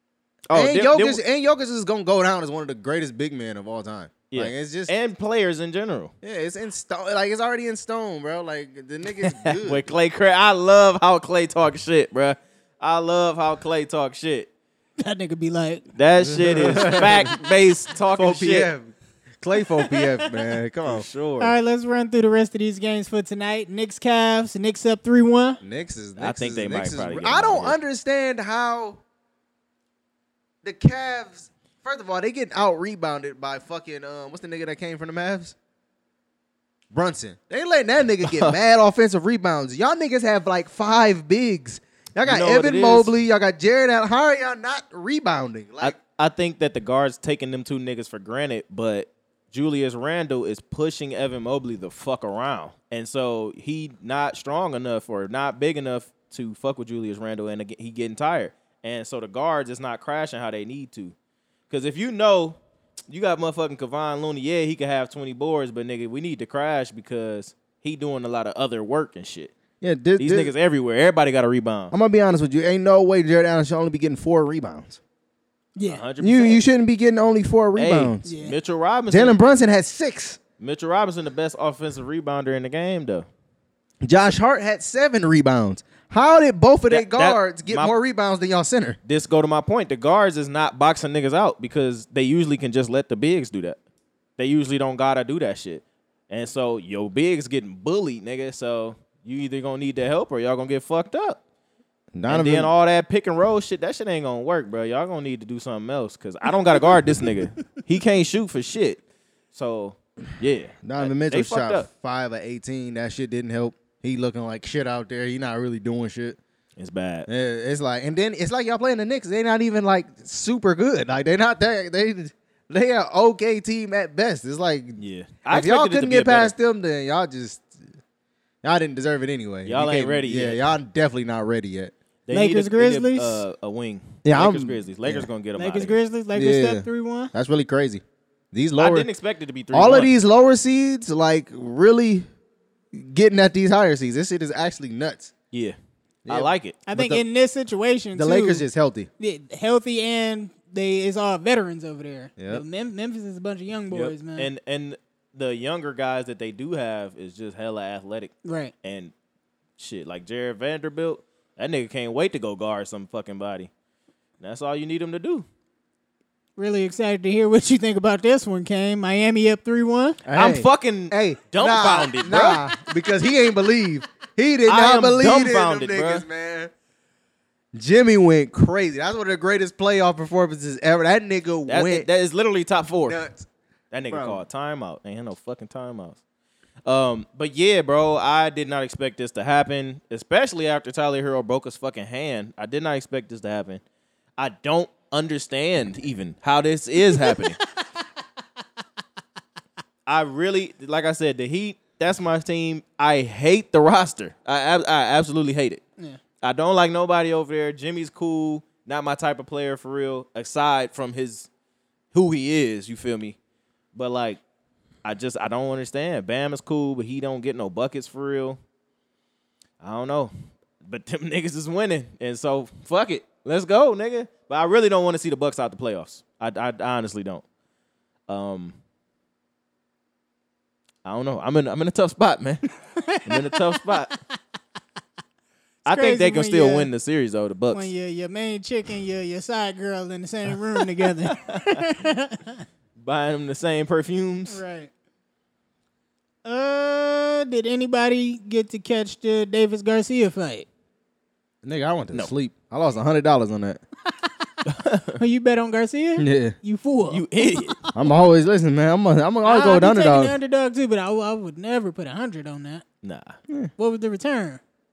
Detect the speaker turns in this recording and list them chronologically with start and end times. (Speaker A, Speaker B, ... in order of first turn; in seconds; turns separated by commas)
Speaker A: 0.5-1.2, Speaker B: 0.5-4.9, Speaker A: 4.3-6.1, Speaker B: 6.2-9.9, Speaker A: 9.2-14.5, Speaker C: 15.0-15.8, Speaker A: 16.0-18.7, Speaker B: 16.2-17.4, Speaker B: 18.1-21.1, Speaker C: 19.8-20.3, Speaker A: 20.9-21.5, Speaker C: 21.4-25.6, Speaker B: 25.6-29.0, Speaker A: 26.2-27.8, Speaker B: 30.6-35.6, Speaker B: 36.9-46.0, Speaker A: 38.2-38.6, Speaker A: 42.3-43.1, Speaker A: 45.8-61.1, Speaker A: 61.7-62.6, Speaker A: 63.1-69.5, Speaker B: 69.8-70.5, Speaker A: 70.2-71.9, Speaker B: 71.9-75.0, Speaker C: 75.8-76.0, Speaker A: 75.9-76.6, Speaker B: 76.2-78.2, Speaker A: 77.8-79.4, Speaker C: 78.2-78.6, Speaker B: 79.1-80.4, Speaker A: 80.6-83.3, Speaker B: 84.0-89.0, Speaker A: 86.9-87.9, Speaker A: 89.1-93.8, Speaker A: 94.4-101.4, Speaker B: 102.1-102.7, Speaker A: 102.3-111.9, Speaker B: 110.8-116.4, Speaker A: 116.8-117.3, Speaker B: 117.3-127.8, Speaker A: 125.0-126.5, Speaker B: 128.6-131.9, Speaker A: 129.7-130.6, Speaker A: 132.3-136.0, Speaker C: 132.3-133.4, Speaker B: 134.2-135.3, Speaker C: 135.6-137.3, Speaker B: 136.3-139.1, Speaker A: 138.8-140.1, Speaker B: 139.7-142.3, Speaker B: 142.9-145.3, Speaker B: 146.3-147.2, Speaker A: 146.3-146.8, Speaker C: 146.9-148.7, Speaker B: 148.2-149.1, Speaker C: 149.2-154.5, Speaker B: 152.4-152.7, Speaker A: 153.9-159.1, Speaker C: 158.4-158.7, Speaker A: 159.8-163.7, Speaker A: 164.4-165.5, Speaker C: 166.6-170.2, Speaker B: 170.2-176.7, Speaker A: 170.3-172.7, Speaker A: 174.7-176.3, Speaker B: 177.7-182.1, Speaker A: 181.7-183.2, Speaker B: 183.1-183.5, Speaker A: 183.9-186.2, Speaker B: 184.1-184.4, Speaker A: 186.8-193.8, Speaker A: 194.4-197.6, Speaker C: 197.1-197.4, Speaker A: 200.1-205.8, Speaker A: 206.4-211.5, Speaker A: 212.1-213.4, Speaker A: 213.9-214.4, Speaker A: 215.0-218.6, Speaker A: 219.8-220.3, Speaker A: 220.8-227.4, Speaker A: 228.3-228.8, Speaker A: 231.1-232.6, Speaker C: 233.0-234.1, Speaker A: 233.2-234.2, Speaker C: 235.9-236.9, Speaker A: 235.9-237.9, Speaker C: 237.7-242.7, Speaker A: 241.3-241.8, Speaker A: 243.0-244.6, Speaker C: 244.5-244.9, Speaker C: 246.4-250.7, Speaker B: 251.6-253.8, Speaker C: 254.1-254.6, Speaker A: 254.7-255.2, Speaker C: 255.2-258.0, Speaker B: 256.2-256.6, Speaker A: 257.1-257.8, Speaker B: 257.9-260.4, Speaker C: 259.4-262.8, Speaker A: 263.0-263.4, Speaker C: 263.8-264.6